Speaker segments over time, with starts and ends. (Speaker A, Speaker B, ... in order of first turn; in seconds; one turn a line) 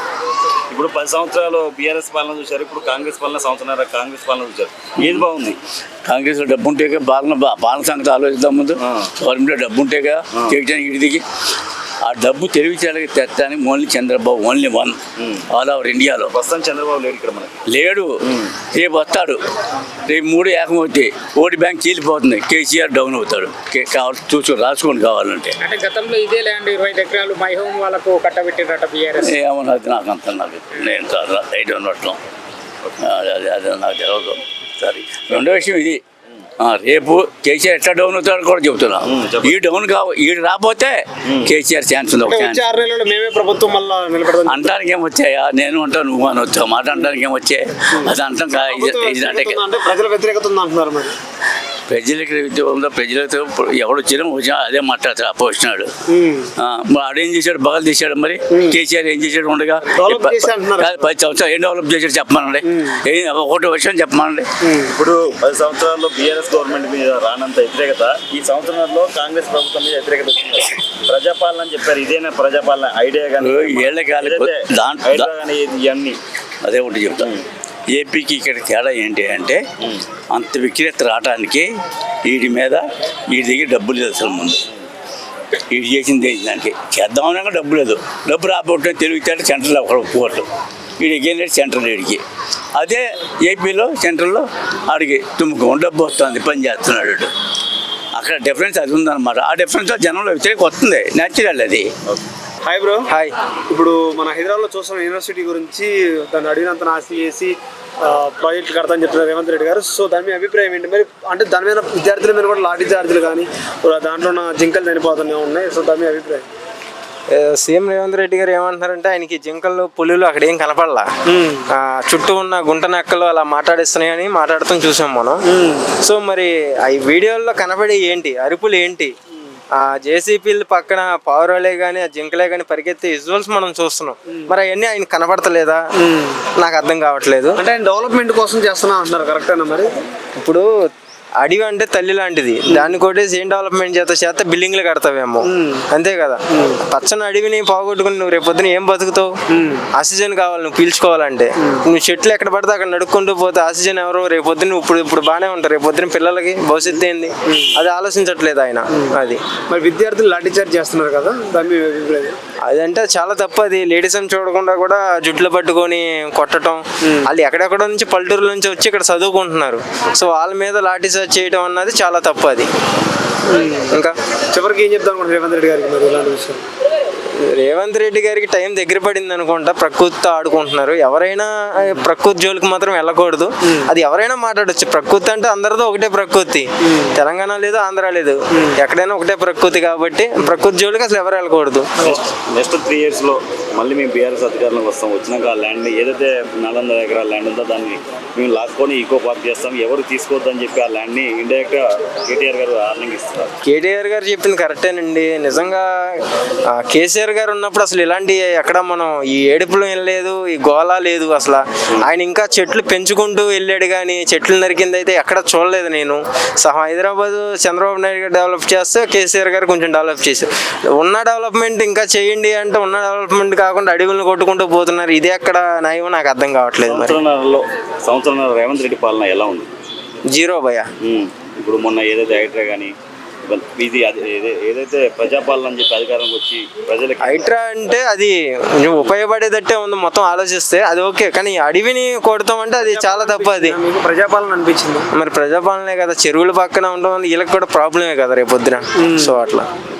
Speaker A: 0.7-5.6
Speaker B: 6.0-11.2
Speaker A: 8.8-9.1
Speaker B: 12.0-16.3
Speaker A: 15.2-15.4
Speaker A: 16.3-17.6
Speaker B: 17.7-19.4
Speaker A: 18.3-18.5
Speaker B: 20.1-25.6
Speaker C: 25.6-29.3
Speaker B: 29.2-32.2
Speaker B: 33.0-36.0
Speaker B: 36.6-42.6
Speaker A: 39.0-39.6
Speaker D: 42.2-44.8
Speaker B: 44.4-49.6
Speaker D: 47.9-51.1
Speaker B: 51.9-55.9
Speaker D: 56.1-56.5
Speaker B: 56.6-64.5
Speaker D: 58.5-58.8
Speaker D: 60.0-61.1
Speaker D: 62.6-63.0
Speaker D: 64.6-64.9
Speaker A: 64.9-76.2
Speaker B: 73.4-75.3
Speaker B: 76.6-77.3
Speaker A: 77.2-77.4
Speaker B: 77.9-79.6
Speaker B: 80.3-81.7
Speaker B: 82.2-84.6
Speaker B: 85.7-90.5
Speaker B: 91.0-92.2
Speaker B: 92.8-97.3
Speaker B: 98.2-101.9
Speaker D: 102.7-103.1
Speaker D: 103.7-116.5
Speaker E: 117.3-121.1
Speaker D: 121.3-121.7
Speaker E: 121.7-125.4
Speaker D: 125.5-125.9
Speaker E: 125.9-129.1
Speaker E: 129.8-135.8
Speaker D: 136.0-136.4
Speaker E: 136.6-137.6
Speaker D: 137.6-139.9
Speaker E: 140.4-140.7
Speaker E: 141.4-149.3
Speaker D: 145.5-145.9
Speaker D: 149.5-149.8
Speaker E: 149.9-159.4
Speaker D: 157.5-157.7
Speaker D: 159.7-162.3
Speaker E: 162.7-172.7
Speaker D: 173.5-173.9
Speaker D: 174.5-176.6
Speaker E: 177.5-192.1
Speaker D: 186.9-187.2
Speaker A: 192.0-203.5
Speaker E: 203.7-206.2
Speaker E: 206.7-227.2
Speaker A: 226.8-229.7
Speaker E: 230.3-230.9
Speaker A: 231.0-232.9
Speaker A: 233.5-237.6
Speaker E: 237.2-243.8
Speaker D: 242.8-245.1
Speaker E: 245.1-249.7
Speaker D: 249.0-249.4